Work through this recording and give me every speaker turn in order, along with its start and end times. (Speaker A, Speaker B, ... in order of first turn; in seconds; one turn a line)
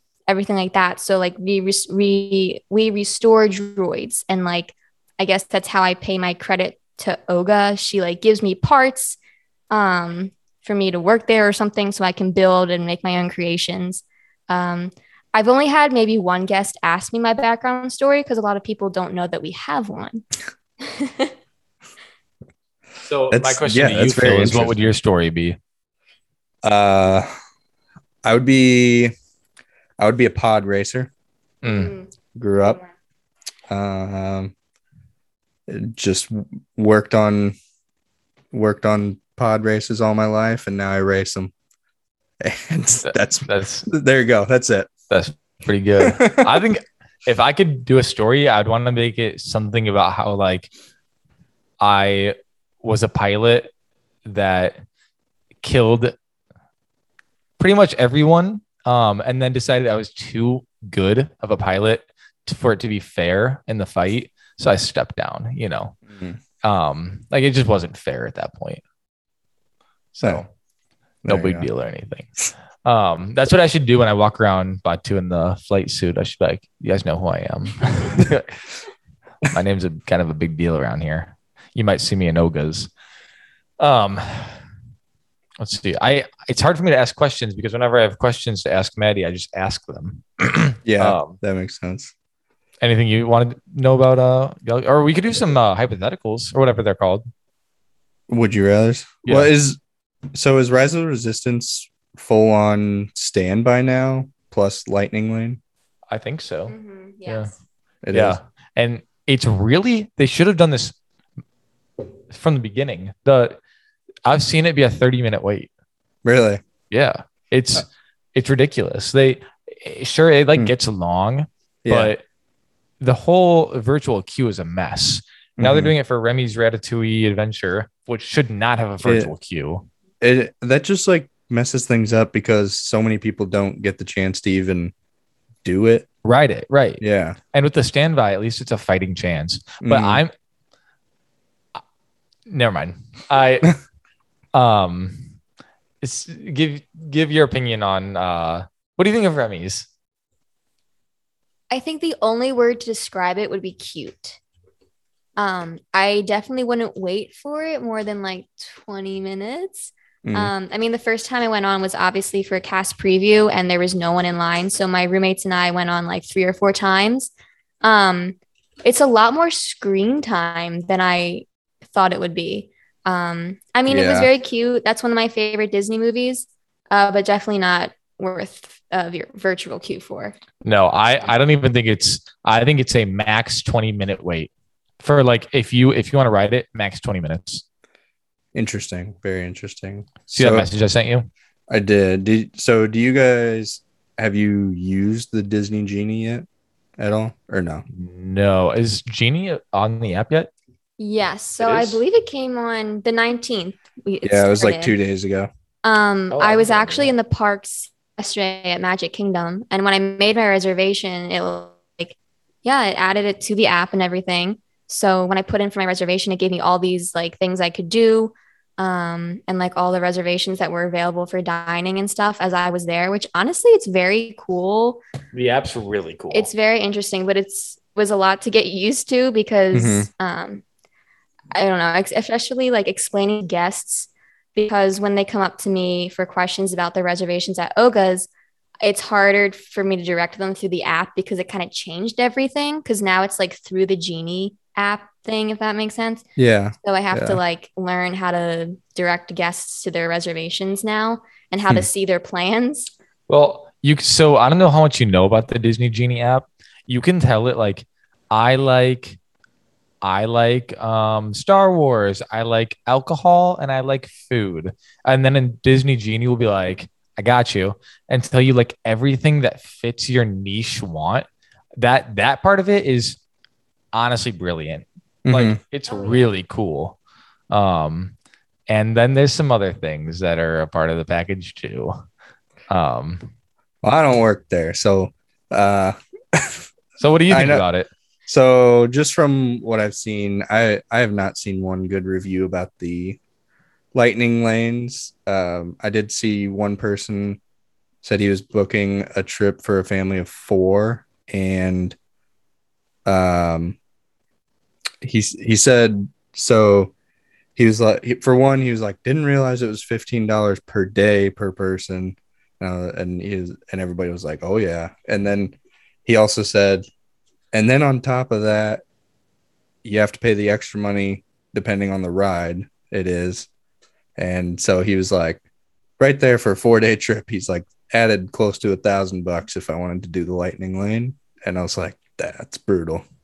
Speaker A: 0.3-9.2
Speaker A: 9.7-20.2
Speaker A: 20.8-21.3
Speaker B: 23.0-25.6
Speaker C: 23.3-24.7
Speaker C: 26.6-27.3
Speaker C: 28.2-29.1
Speaker C: 30.0-31.1
Speaker B: 31.6-31.9
Speaker A: 31.6-32.9
Speaker C: 32.4-32.8
Speaker C: 33.7-34.5
Speaker C: 35.7-37.5
Speaker C: 38.5-41.5
Speaker C: 42.4-44.9
Speaker B: 43.0-43.9
Speaker B: 45.1-50.7
Speaker C: 46.0-46.6
Speaker B: 51.8-53.7
Speaker B: 54.2-54.8
Speaker B: 55.6-56.1
Speaker B: 57.6-66.0
Speaker C: 66.1-66.4
Speaker B: 66.6-68.8
Speaker B: 70.1-70.5
Speaker C: 71.2-71.7
Speaker B: 71.2-72.3
Speaker B: 72.8-78.5
Speaker B: 79.4-82.9
Speaker B: 83.8-84.6
Speaker B: 85.6-91.4
Speaker C: 90.8-92.1
Speaker B: 92.8-97.3
Speaker C: 98.3-99.8
Speaker B: 99.2-99.5
Speaker C: 100.3-105.6
Speaker B: 106.1-106.7
Speaker A: 106.7-107.6
Speaker C: 108.0-108.4
Speaker B: 108.1-110.9
Speaker B: 112.3-113.6
Speaker B: 114.2-115.7
Speaker C: 116.2-116.6
Speaker B: 116.9-122.2
Speaker C: 121.8-122.1
Speaker B: 123.0-129.8
Speaker C: 125.6-125.9
Speaker C: 129.0-129.3
Speaker C: 130.2-134.9
Speaker C: 135.6-136.1
Speaker B: 136.2-137.0
Speaker C: 137.0-137.4
Speaker B: 137.5-140.3
Speaker C: 139.8-140.2
Speaker B: 142.5-143.7
Speaker B: 144.5-145.3
Speaker B: 146.0-149.9
Speaker A: 151.7-154.4
Speaker A: 155.4-167.3
Speaker C: 160.2-160.5
Speaker A: 167.8-180.3
Speaker C: 173.9-174.3
Speaker B: 180.6-187.6
Speaker C: 188.5-190.7
Speaker B: 190.3-191.3
Speaker C: 191.7-196.4
Speaker C: 197.0-197.8
Speaker B: 197.9-200.5
Speaker A: 201.0-204.9
Speaker C: 204.2-205.5
Speaker A: 205.8-225.0
Speaker B: 206.3-207.1
Speaker B: 225.3-226.5
Speaker A: 226.3-230.6
Speaker C: 229.7-230.1
Speaker A: 231.5-238.3
Speaker A: 238.8-246.2
Speaker C: 246.4-247.4
Speaker A: 246.8-252.9
Speaker B: 253.3-259.2
Speaker B: 260.0-271.2
Speaker B: 271.8-273.2
Speaker B: 273.9-277.0
Speaker C: 275.2-275.6
Speaker B: 277.5-278.1
Speaker B: 278.7-282.0
Speaker B: 282.7-283.3
Speaker C: 283.8-286.6
Speaker B: 287.0-287.9
Speaker C: 287.3-287.6
Speaker C: 288.3-293.2
Speaker C: 293.9-297.4
Speaker C: 298.0-302.0
Speaker C: 303.1-303.8
Speaker C: 305.0-306.9
Speaker C: 307.6-316.9
Speaker C: 317.5-318.8
Speaker C: 319.8-323.5
Speaker C: 324.2-325.4
Speaker C: 326.0-333.0